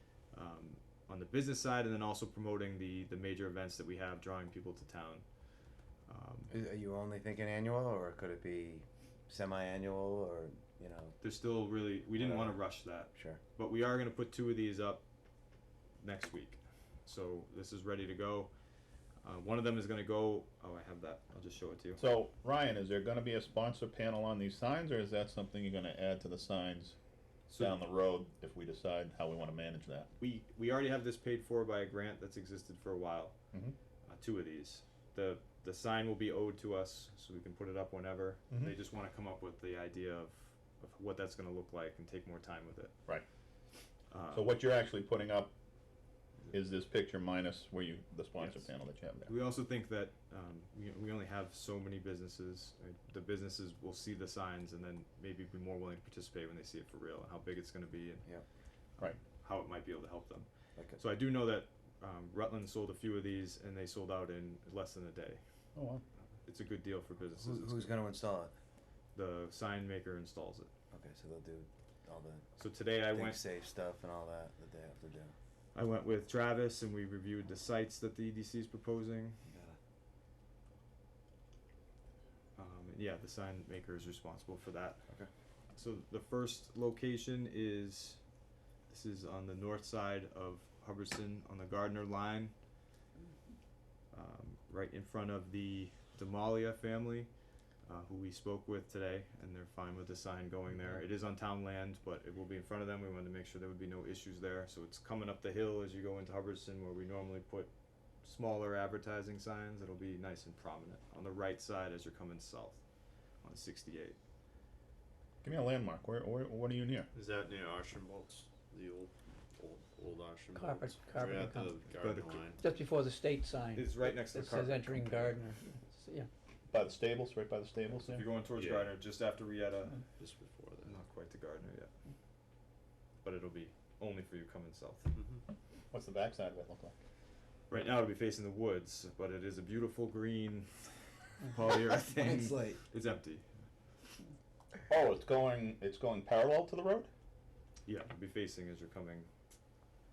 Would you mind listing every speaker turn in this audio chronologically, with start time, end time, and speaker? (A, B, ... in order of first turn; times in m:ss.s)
0:00.3-0:06.5 A
0:06.5-0:11.2 B
0:11.2-0:15.0 A
0:12.2-0:13.4 B
0:16.0-0:18.5 A
0:19.2-0:22.0 A
0:22.0-0:27.0 C
0:27.5-0:27.8 A
0:27.5-0:30.1 C
0:30.2-0:33.3 A
0:34.0-0:42.9 A
0:44.1-0:44.5 A
0:44.3-0:45.5 C
0:46.5-0:49.3 C
0:48.4-0:48.7 A
0:49.2-0:58.2 A
0:59.0-1:05.4 A
1:05.7-1:06.0 C
1:06.4-1:07.9 A
1:07.4-1:08.5 B
1:09.1-1:10.7 A
1:10.9-1:15.3 B
1:12.6-1:13.4 A
1:15.7-1:19.4 A
1:19.5-1:19.8 B
1:22.6-1:25.0 A
1:25.7-1:28.2 A
1:28.9-1:32.6 A
1:34.1-1:54.2 A
1:55.4-1:57.1 C
1:57.1-2:02.6 D
2:00.6-2:01.8 E
2:02.0-2:02.4 A
2:02.6-2:06.3 E
2:03.7-2:05.4 A
2:06.7-2:08.2 C
2:08.0-2:10.0 A
2:08.5-2:09.0 D
2:10.2-2:10.9 D
2:10.8-2:11.9 A
2:13.2-2:15.1 A
2:15.1-2:15.4 D
2:15.9-2:16.9 C
2:17.7-2:23.6 A
2:21.7-2:22.8 B
2:24.9-2:27.1 C
2:27.8-2:29.3 A